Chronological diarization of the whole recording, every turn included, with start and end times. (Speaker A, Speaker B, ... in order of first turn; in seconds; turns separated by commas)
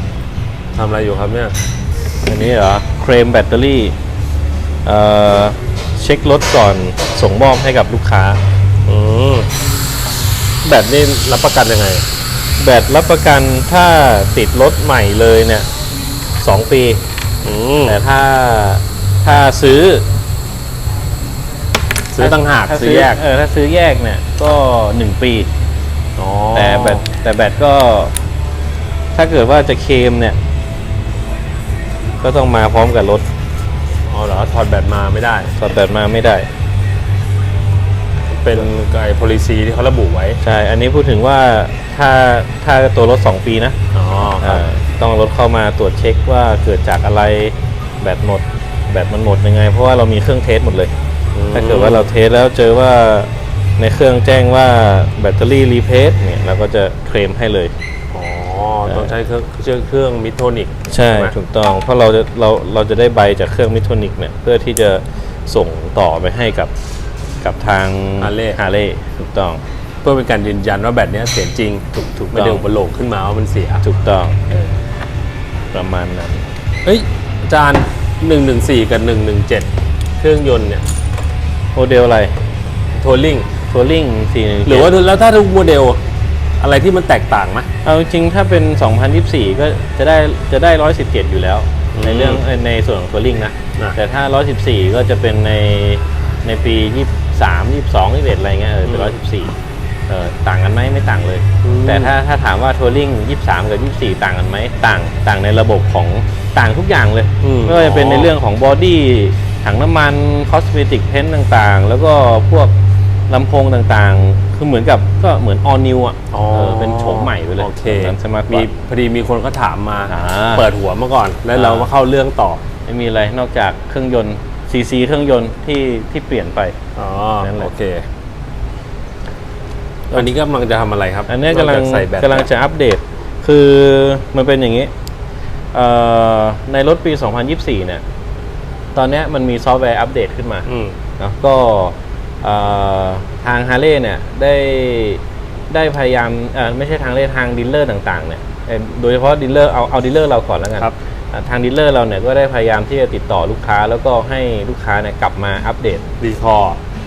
Speaker A: 0.7-1.6, Speaker B: 2.2-4.0, Speaker B: 4.8-8.4, Speaker A: 8.8-9.5, Speaker A: 10.6-12.1, Speaker B: 12.6-15.7, Speaker B: 16.4-17.0, Speaker A: 17.4-18.0, Speaker B: 17.9-20.1, Speaker A: 22.1-23.2, Speaker B: 22.2-25.5, Speaker A: 26.2-27.1, Speaker B: 26.6-28.1, Speaker B: 29.1-30.4, Speaker B: 32.2-33.3, Speaker A: 34.1-35.5, Speaker B: 35.5-36.5, Speaker A: 38.3-40.4, Speaker B: 40.4-43.8, Speaker A: 43.9-44.6, Speaker B: 44.4-50.9, Speaker A: 51.3-52.1, Speaker B: 51.5-57.7, Speaker A: 58.1-61.3, Speaker B: 60.9-66.7, Speaker B: 67.4-69.6, Speaker A: 68.2-68.6, Speaker A: 70.0-73.8, Speaker B: 72.1-72.6, Speaker B: 73.8-74.4, Speaker B: 75.7-76.5, Speaker A: 76.8-80.9, Speaker B: 81.8-82.4, Speaker A: 82.9-83.5, Speaker B: 83.7-84.9, Speaker A: 84.7-86.0, Speaker A: 86.6-87.7, Speaker B: 87.8-99.5, Speaker A: 92.0-92.4, Speaker A: 98.9-99.2, Speaker B: 100.1-112.7, Speaker A: 101.6-102.1, Speaker A: 107.4-108.3, Speaker B: 113.3-118.7, Speaker A: 116.3-122.6, Speaker B: 120.1-120.7, Speaker B: 121.6-121.9, Speaker B: 122.9-126.8, Speaker A: 127.0-128.1, Speaker B: 127.4-127.7, Speaker A: 130.1-132.5, Speaker B: 131.3-134.9, Speaker B: 135.7-138.0, Speaker B: 138.9-140.7, Speaker A: 140.7-141.0, Speaker B: 141.2-156.1, Speaker A: 156.2-156.8